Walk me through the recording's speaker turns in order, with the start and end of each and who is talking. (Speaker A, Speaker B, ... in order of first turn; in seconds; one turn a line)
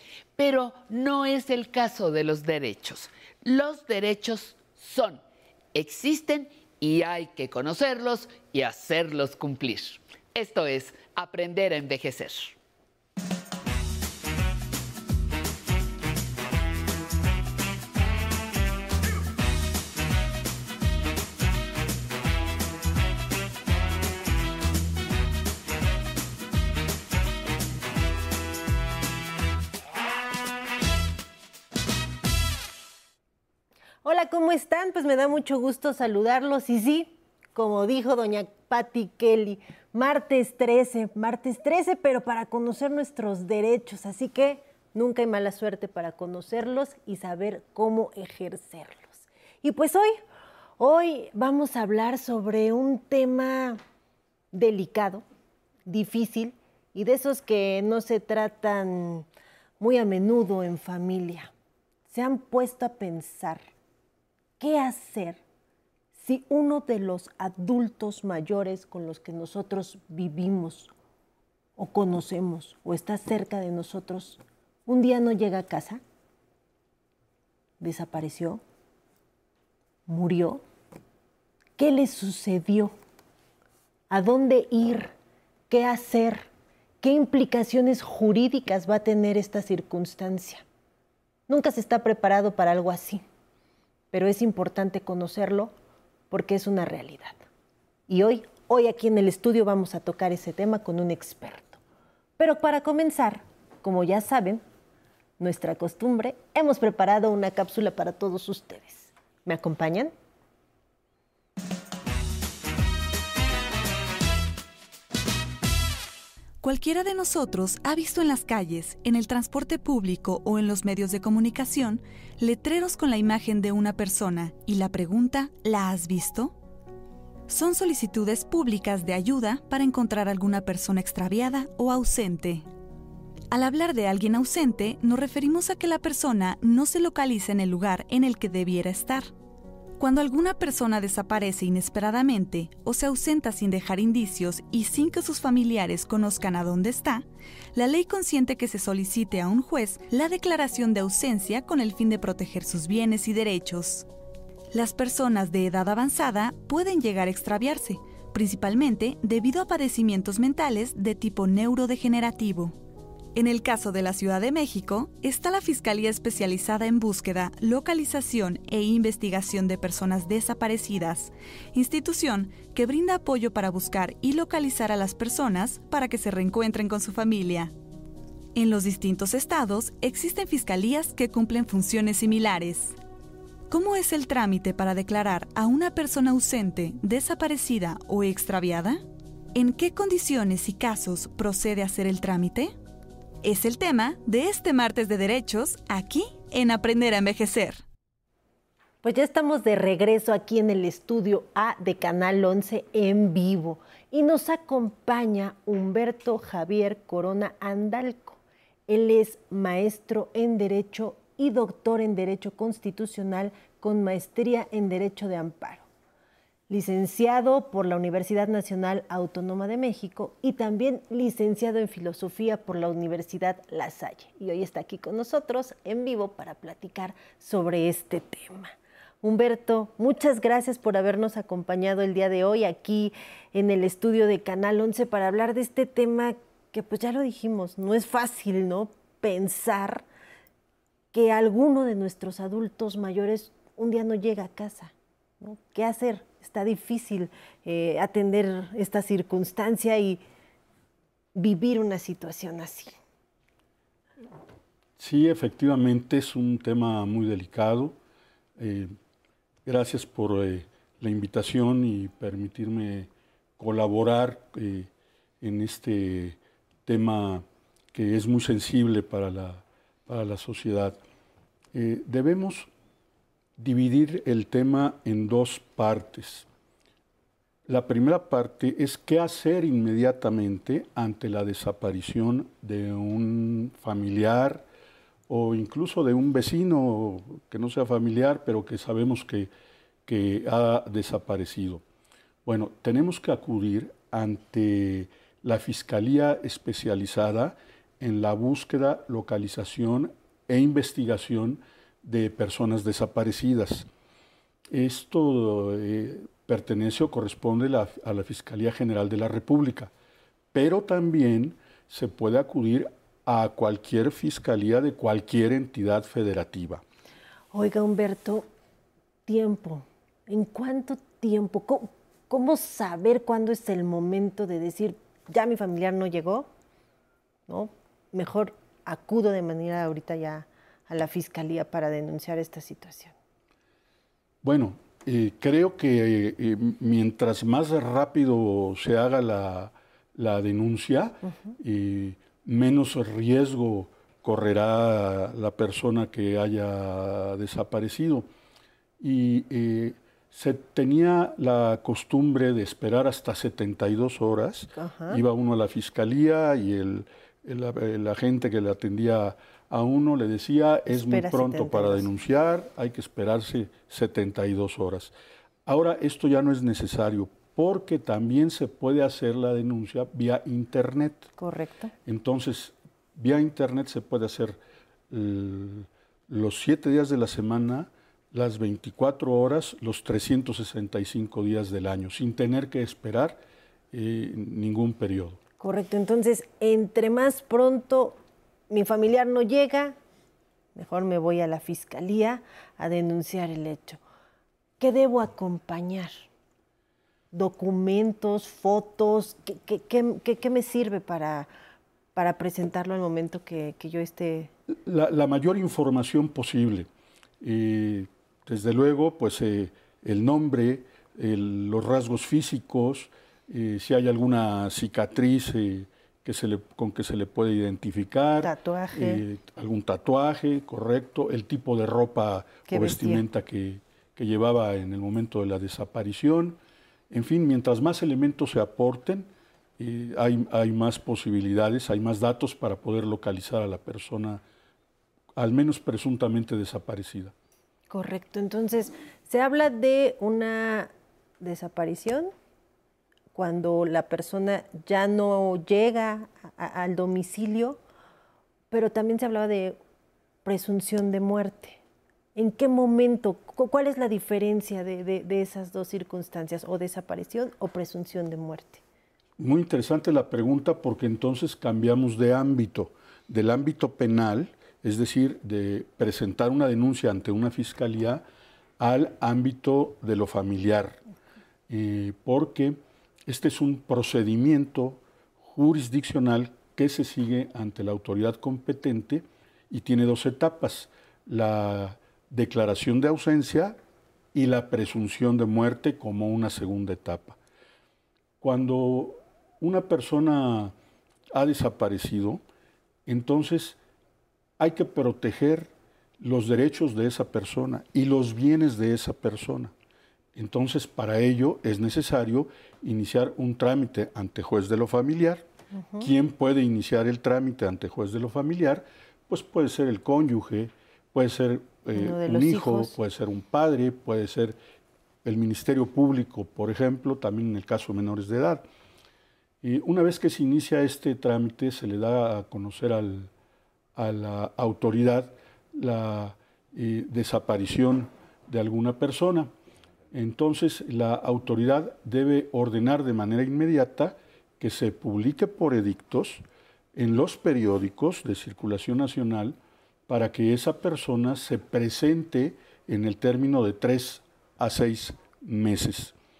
Speaker A: 0.4-5.2
Speaker A: 5.7-12.6
Speaker B: 34.0-50.2
Speaker B: 50.8-53.8
Speaker B: 54.5-55.2
Speaker B: 55.9-59.2
Speaker B: 59.8-61.5
Speaker B: 62.1-63.7
Speaker B: 64.6-65.4
Speaker B: 66.1-70.9
Speaker B: 71.8-76.0
Speaker B: 77.8-78.6
Speaker B: 80.1-80.6
Speaker B: 81.8-82.9
Speaker B: 84.1-85.1
Speaker B: 85.7-86.5
Speaker B: 87.0-90.6
Speaker B: 91.5-93.2
Speaker B: 94.1-95.7
Speaker B: 96.3-97.4
Speaker B: 98.1-101.8
Speaker B: 102.4-104.6
Speaker B: 105.4-110.1
Speaker C: 116.6-126.5
Speaker C: 127.5-132.6
Speaker C: 133.5-139.3
Speaker C: 140.0-154.1
Speaker C: 154.7-162.8
Speaker C: 163.3-177.7
Speaker C: 178.5-182.9
Speaker C: 183.7-189.0
Speaker C: 189.5-192.7
Speaker C: 193.4-197.8
Speaker B: 199.0-215.9
Speaker B: 216.7-240.0
Speaker B: 241.1-250.2
Speaker B: 251.3-252.9
Speaker D: 255.0-258.0
Speaker D: 258.6-258.9
Speaker D: 259.6-264.9
Speaker D: 265.4-271.0
Speaker D: 271.7-272.7
Speaker D: 273.6-276.5
Speaker D: 277.7-284.6
Speaker D: 285.3-289.5
Speaker D: 290.1-291.8
Speaker D: 292.4-303.9
Speaker D: 304.7-309.9
Speaker D: 310.5-316.8
Speaker B: 317.5-318.5
Speaker B: 319.3-326.5
Speaker B: 327.5-333.1
Speaker D: 334.4-348.3
Speaker D: 349.0-365.1
Speaker B: 354.8-355.2
Speaker B: 360.9-362.1
Speaker D: 365.6-371.3
Speaker B: 371.4-371.9
Speaker D: 372.0-383.4
Speaker D: 383.9-385.4
Speaker B: 385.6-388.2
Speaker B: 388.7-389.9
Speaker B: 390.7-394.0
Speaker B: 394.8-396.1
Speaker B: 397.3-401.5
Speaker B: 402.1-404.5
Speaker D: 404.7-406.9
Speaker D: 407.4-426.6
Speaker B: 418.4-419.2
Speaker B: 422.7-423.2
Speaker D: 427.1-434.4
Speaker D: 435.4-437.3
Speaker B: 437.9-442.3
Speaker B: 443.3-447.8
Speaker B: 448.7-449.8
Speaker B: 450.4-451.8
Speaker B: 452.4-458.8
Speaker D: 459.4-468.2
Speaker D: 468.8-471.0
Speaker D: 471.7-483.8
Speaker D: 484.3-487.4
Speaker D: 488.4-490.7
Speaker D: 491.3-492.4
Speaker D: 493.1-493.8
Speaker D: 494.6-499.7
Speaker D: 500.3-505.4
Speaker B: 505.7-506.1
Speaker D: 506.0-514.6
Speaker B: 511.9-512.9
Speaker D: 515.2-518.6
Speaker D: 519.6-523.3
Speaker D: 524.0-529.5
Speaker D: 530.1-536.4
Speaker D: 536.9-539.6
Speaker D: 540.1-546.1